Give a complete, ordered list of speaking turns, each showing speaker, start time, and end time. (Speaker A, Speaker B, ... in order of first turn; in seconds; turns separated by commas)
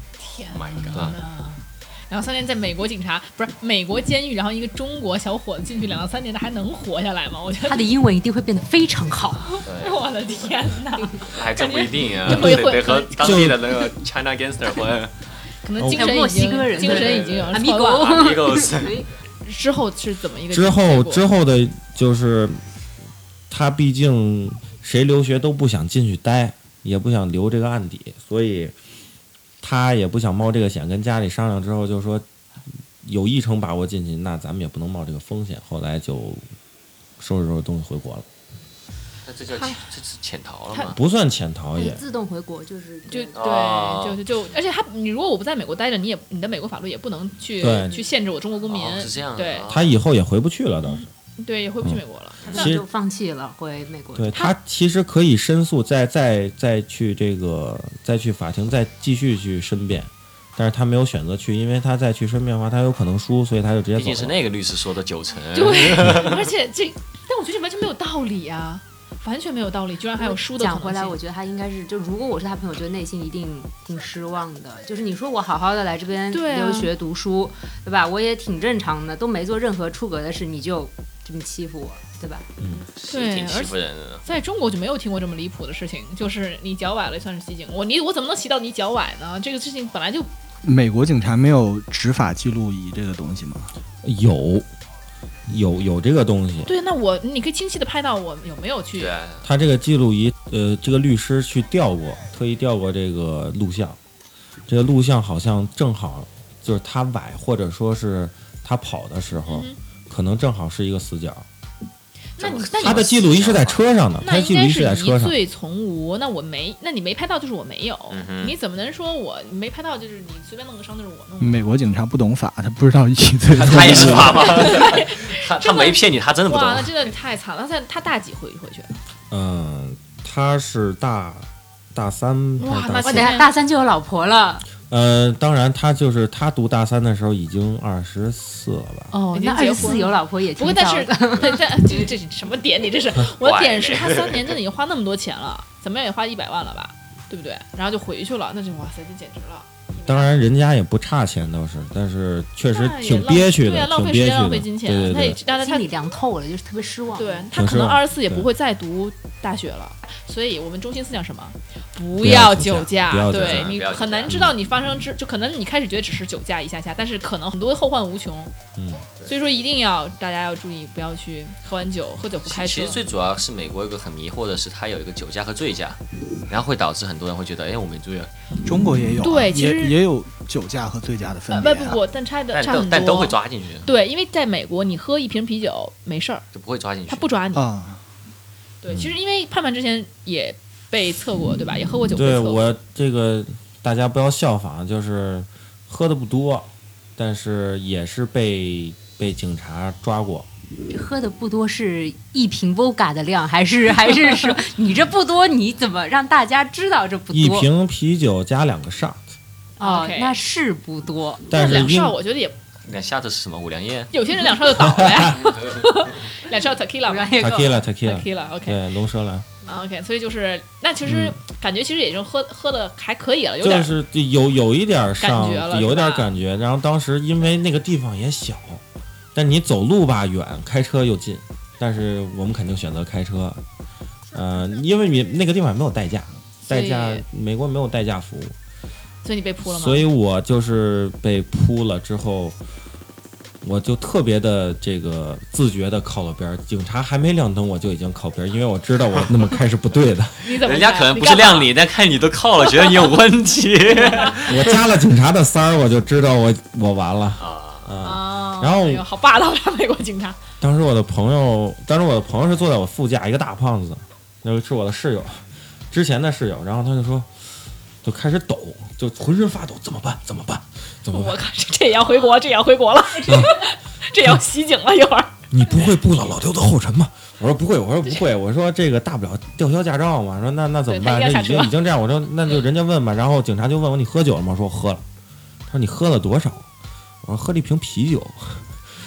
Speaker A: 0.2-7.9, Speaker B: 0.5-1.1, Speaker C: 7.7-9.5, Speaker A: 9.5-13.4, Speaker B: 9.7-10.0, Speaker B: 11.3-15.1, Speaker D: 12.2-13.6, Speaker A: 15.6-18.4, Speaker D: 15.8-16.2, Speaker C: 15.9-19.1, Speaker B: 16.8-19.1, Speaker A: 19.4-21.2, Speaker D: 20.5-22.6, Speaker D: 23.5-28.7, Speaker D: 29.6-32.2, Speaker D: 33.0-36.5, Speaker D: 37.2-38.3, Speaker B: 39.3-41.0, Speaker A: 39.5-39.9, Speaker D: 40.9-42.0, Speaker C: 41.8-43.4, Speaker A: 43.1-49.6, Speaker B: 43.4-44.2, Speaker D: 47.6-48.0, Speaker B: 48.7-49.9, Speaker D: 49.7-51.1, Speaker A: 50.9-52.8, Speaker C: 52.5-54.3, Speaker D: 52.5-52.9, Speaker D: 54.1-64.4, Speaker B: 64.0-66.5, Speaker A: 65.5-71.2, Speaker C: 70.2-82.5, Speaker A: 76.3-76.9, Speaker D: 82.6-82.8, Speaker B: 83.0-84.2, Speaker A: 83.1-90.3, Speaker E: 90.6-93.7, Speaker D: 94.0-94.7, Speaker D: 95.5-96.7, Speaker A: 96.7-99.1, Speaker B: 99.0-99.4, Speaker D: 99.4-104.0, Speaker D: 104.7-111.5, Speaker A: 109.5-109.8, Speaker A: 112.4-113.1, Speaker B: 112.4-113.8, Speaker D: 112.8-115.4, Speaker A: 114.2-121.6, Speaker B: 118.1-118.5, Speaker E: 121.4-124.7, Speaker B: 123.5-126.9, Speaker D: 123.7-124.3, Speaker A: 124.4-128.9, Speaker D: 129.3-133.4, Speaker A: 132.6-133.5, Speaker C: 133.0-134.7, Speaker D: 134.9-139.1, Speaker C: 139.1-142.1, Speaker A: 139.3-150.4, Speaker B: 143.4-144.5, Speaker D: 149.9-155.4, Speaker A: 152.7-155.9, Speaker C: 155.4-157.5, Speaker A: 157.1-168.5, Speaker D: 157.5-158.5, Speaker D: 162.2-163.7, Speaker B: 163.3-164.5, Speaker D: 168.8-169.1, Speaker A: 169.2-173.0, Speaker B: 172.4-178.3, Speaker E: 178.6-182.0, Speaker A: 179.2-180.0, Speaker A: 181.5-186.4, Speaker B: 182.5-183.9, Speaker B: 186.5-187.3, Speaker A: 187.1-187.7, Speaker E: 187.5-188.0, Speaker A: 188.8-192.7, Speaker D: 192.1-200.5, Speaker C: 200.9-207.7, Speaker D: 207.3-209.3, Speaker C: 209.8-211.4, Speaker A: 209.8-210.4, Speaker D: 211.5-212.2, Speaker A: 211.5-212.6, Speaker B: 212.9-214.1, Speaker A: 214.1-218.8, Speaker D: 214.6-215.5, Speaker C: 217.1-217.8, Speaker D: 217.4-219.5, Speaker A: 219.6-223.9, Speaker D: 221.1-221.3, Speaker D: 223.6-228.8, Speaker A: 225.2-226.3, Speaker D: 229.3-233.6, Speaker D: 234.3-238.6, Speaker A: 236.6-237.2, Speaker A: 239.2-240.1, Speaker D: 239.6-242.6, Speaker D: 243.6-250.4, Speaker A: 250.4-251.7, Speaker B: 250.5-254.8, Speaker A: 254.0-254.4, Speaker D: 254.4-259.0, Speaker B: 257.4-257.9, Speaker A: 258.0-260.4, Speaker D: 260.6-267.3, Speaker D: 268.0-271.4, Speaker A: 271.1-275.4, Speaker D: 273.3-273.6, Speaker D: 275.5-285.0, Speaker A: 280.9-281.7, Speaker D: 285.7-286.7, Speaker D: 287.2-288.6